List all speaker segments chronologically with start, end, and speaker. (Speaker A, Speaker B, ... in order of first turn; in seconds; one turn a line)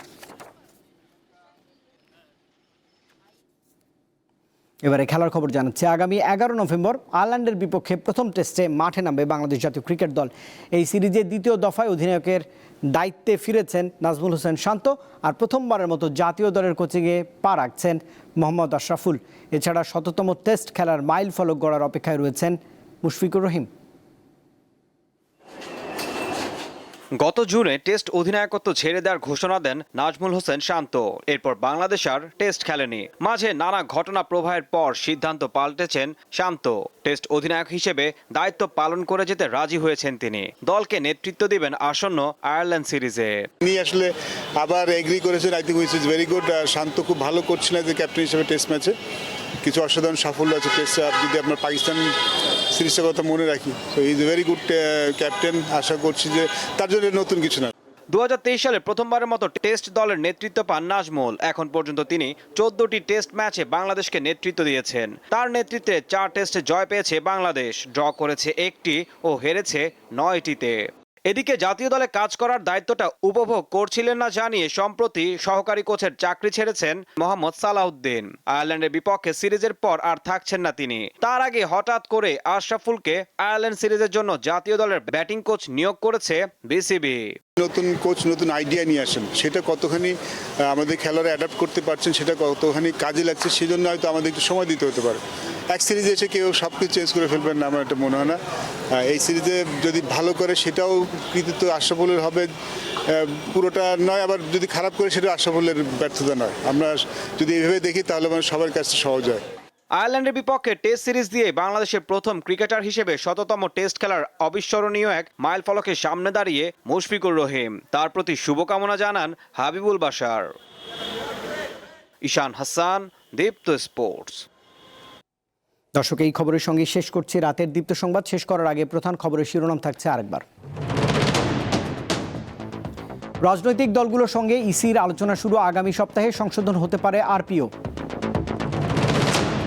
Speaker A: 4.8-23.7
Speaker B: 27.2-43.5
Speaker C: 43.6-49.0
Speaker C: 49.6-52.1
Speaker C: 52.8-57.7
Speaker B: 58.1-87.4
Speaker C: 87.6-90.2
Speaker C: 90.7-98.4
Speaker C: 99.0-102.5
Speaker C: 103.1-109.4
Speaker B: 110.0-120.5
Speaker B: 122.2-124.5
Speaker A: 126.0-130.4
Speaker A: 133.4-137.7